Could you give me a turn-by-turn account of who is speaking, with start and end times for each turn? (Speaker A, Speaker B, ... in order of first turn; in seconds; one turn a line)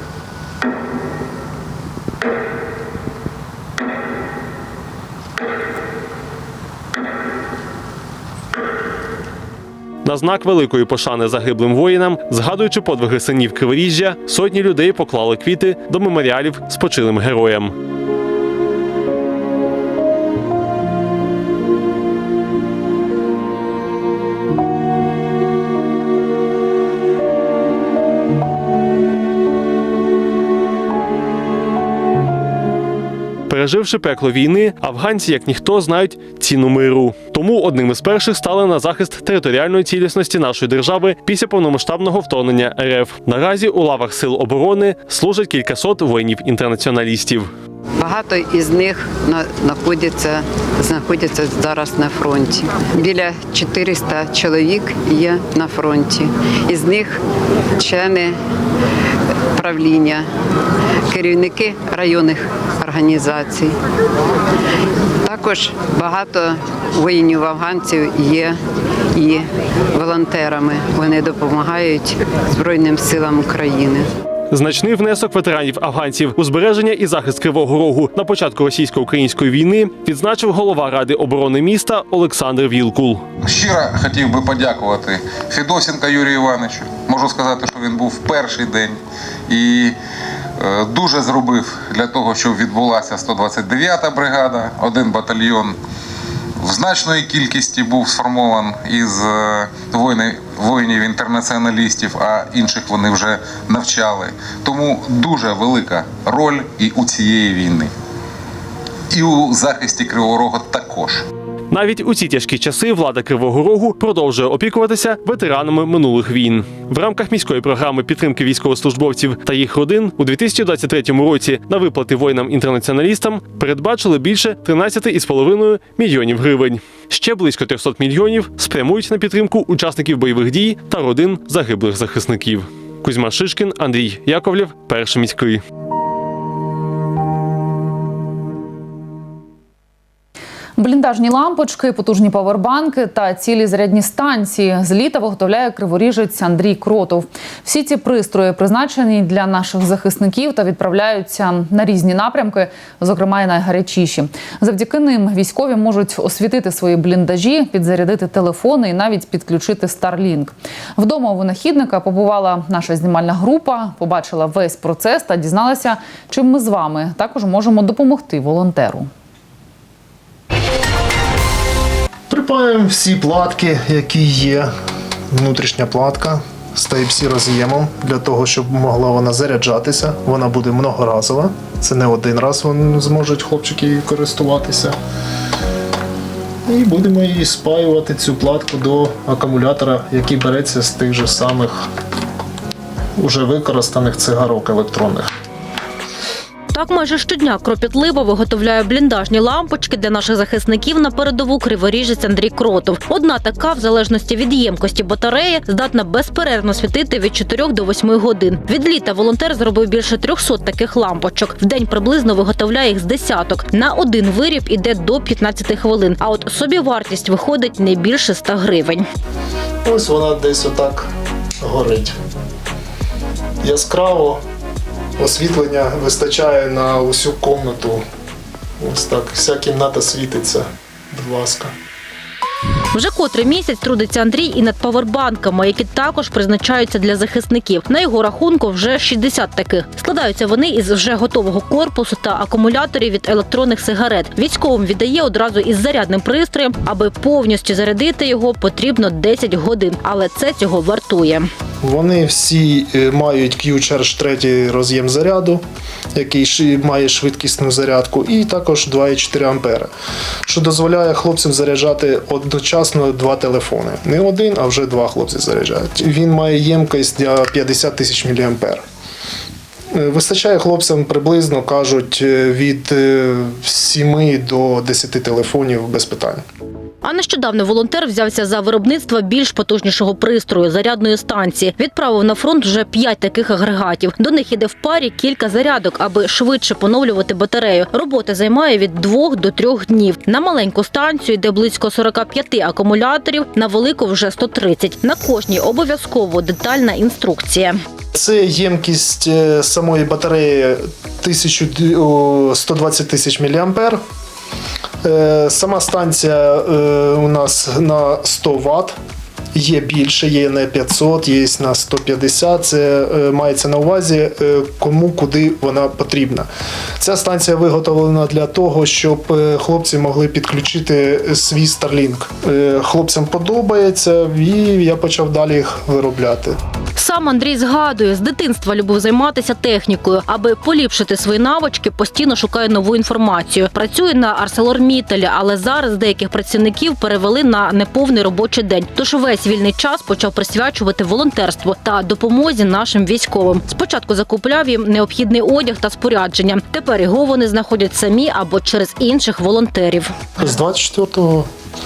Speaker A: 10.1-17.7
Speaker A: 33.5-47.5
Speaker B: 48.0-57.2
Speaker B: 57.8-58.4
Speaker B: 59.5-60.3
Speaker B: 61.1-63.8
Speaker B: 65.2-68.6
Speaker B: 69.1-74.1
Speaker A: 74.5-83.2
Speaker C: 83.4-90.0
Speaker C: 90.6-95.8
Speaker C: 96.6-107.9
Speaker C: 109.1-111.2
Speaker A: 111.7-135.6
Speaker D: 140.8-169.1
Speaker E: 172.3-174.7
Speaker E: 175.3-185.0
Speaker E: 186.7-191.9
Speaker E: 193.2-195.3
Speaker F: 196.7-219.0
Speaker E: 219.8-222.2
Speaker E: 223.6-224.4
Speaker E: 225.2-228.0
Speaker E: 228.8-231.7
Speaker F: 232.9-251.5
Speaker E: 251.8-259.9
Speaker E: 260.4-268.9
Speaker E: 269.9-276.4
Speaker F: 277.0-297.8
Speaker E: 298.1-304.0
Speaker E: 305.0-309.0
Speaker E: 309.6-316.5
Speaker E: 317.0-326.6
Speaker F: 327.0-350.1
Speaker E: 350.4-351.5